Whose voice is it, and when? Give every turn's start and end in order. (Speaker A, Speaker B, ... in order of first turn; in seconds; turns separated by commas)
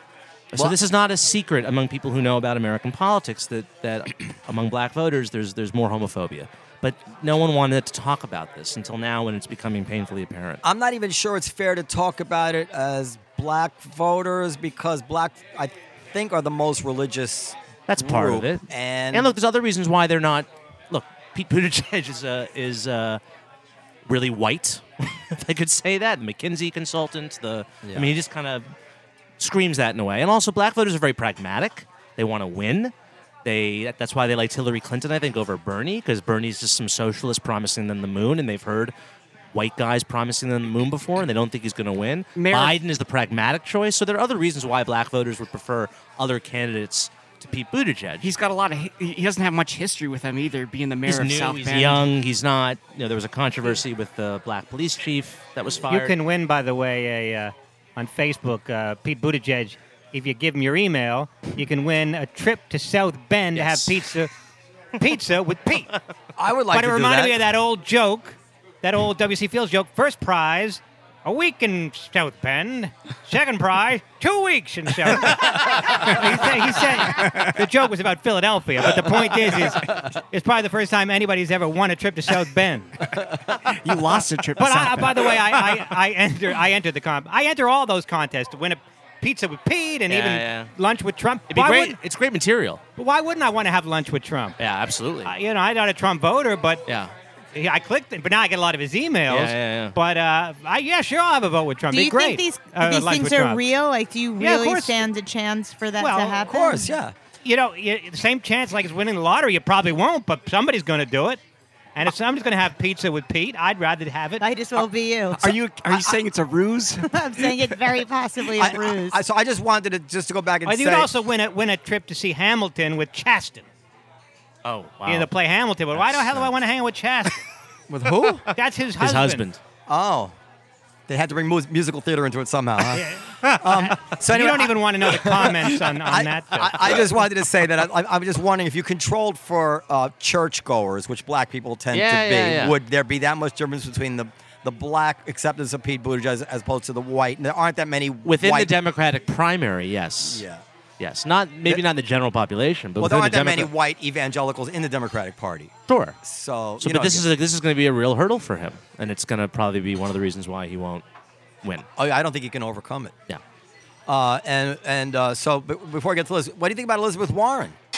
Speaker A: 0.5-10.6, Speaker B: 10.6-19.3, Speaker A: 17.9-23.2, Speaker A: 24.1-28.6, Speaker B: 27.8-28.1, Speaker A: 29.4-32.9, Speaker A: 33.4-38.9, Speaker A: 39.5-48.3, Speaker C: 42.4-42.8, Speaker C: 48.2-52.1, Speaker A: 51.0-56.1, Speaker D: 55.9-64.3, Speaker A: 63.5-64.0, Speaker D: 65.0-65.9, Speaker B: 66.4-67.4, Speaker D: 66.7-83.1, Speaker C: 77.2-77.5, Speaker C: 83.5-85.7, Speaker D: 84.6-92.0, Speaker A: 90.1-90.7, Speaker A: 91.5-92.8, Speaker D: 93.0-94.6, Speaker A: 94.6-95.3, Speaker D: 95.2-96.8, Speaker A: 96.9-97.1, Speaker D: 97.5-103.6, Speaker A: 99.3-99.9, Speaker E: 101.9-107.0, Speaker D: 104.4-105.1, Speaker D: 106.0-106.4, Speaker B: 106.4-107.1, Speaker D: 107.4-111.4, Speaker D: 111.9-114.5, Speaker E: 114.4-115.6, Speaker C: 115.3-117.8, Speaker E: 117.1-119.2, Speaker B: 118.5-121.1, Speaker D: 120.6-123.7, Speaker A: 124.6-125.3, Speaker D: 125.0-127.4, Speaker A: 125.9-126.5, Speaker B: 127.9-128.5, Speaker D: 128.5-129.4, Speaker A: 129.0-129.6, Speaker B: 129.9-130.3, Speaker B: 131.1-148.7, Speaker D: 132.9-136.9, Speaker A: 141.9-142.8, Speaker A: 148.2-150.4, Speaker B: 150.2-150.6, Speaker A: 151.0-153.7, Speaker B: 153.0-157.3, Speaker A: 155.9-156.2, Speaker A: 156.8-161.0, Speaker B: 162.0-163.1, Speaker B: 164.1-167.8